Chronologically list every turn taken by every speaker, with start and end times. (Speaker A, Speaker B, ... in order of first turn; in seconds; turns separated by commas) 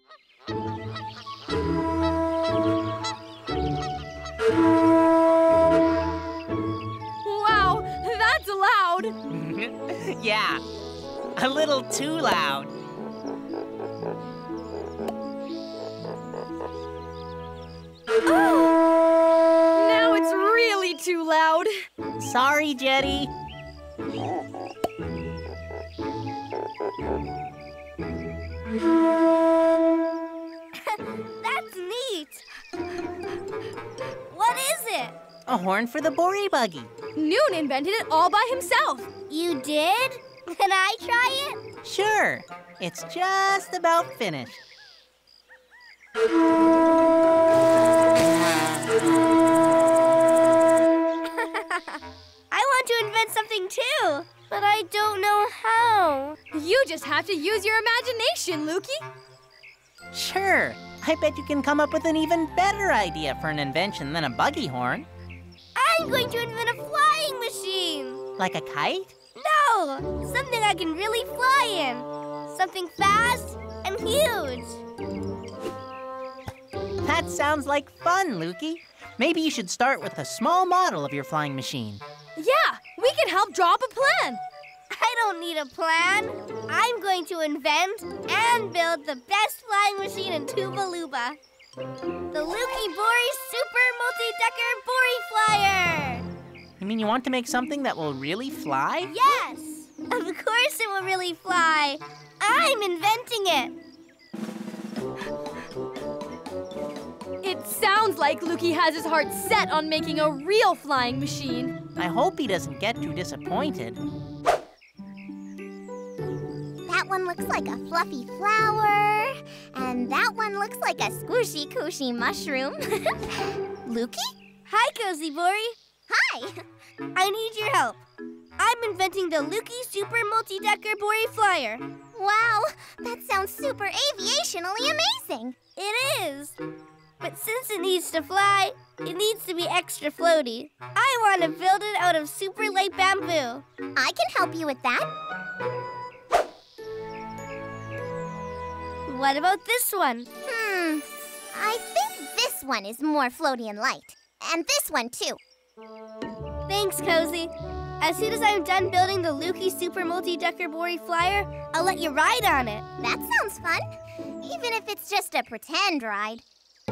Speaker A: 7.2-9.1, Speaker B: 9.3-10.6, Speaker B: 11.4-12.7, Speaker A: 18.2-18.8, Speaker A: 19.8-21.7, Speaker B: 22.2-23.3, Speaker C: 30.9-32.4, Speaker C: 34.3-35.1, Speaker B: 35.5-36.9, Speaker A: 37.2-39.1, Speaker C: 39.3-41.6, Speaker B: 41.8-44.6, Speaker C: 52.5-56.4, Speaker A: 56.5-59.0, Speaker B: 60.1-65.1, Speaker C: 65.8-68.2, Speaker B: 68.4-69.1, Speaker C: 69.4-74.8, Speaker B: 77.0-82.0, Speaker A: 82.4-84.4, Speaker C: 85.0-91.4, Speaker C: 92.3-96.2, Speaker B: 96.8-99.1, Speaker C: 99.1-103.7, Speaker A: 107.4-111.7, Speaker B: 112.0-114.0, Speaker D: 116.9-124.3, Speaker C: 124.7-125.8, Speaker D: 126.1-126.5, Speaker C: 127.1-128.0, Speaker C: 128.6-131.8, Speaker D: 132.2-135.6, Speaker C: 135.8-136.6, Speaker C: 137.2-143.7, Speaker D: 144.0-145.1, Speaker C: 149.1-150.3, Speaker D: 150.5-155.4, Speaker C: 156.7-162.8, Speaker D: 163.0-163.8, Speaker D: 164.4-166.4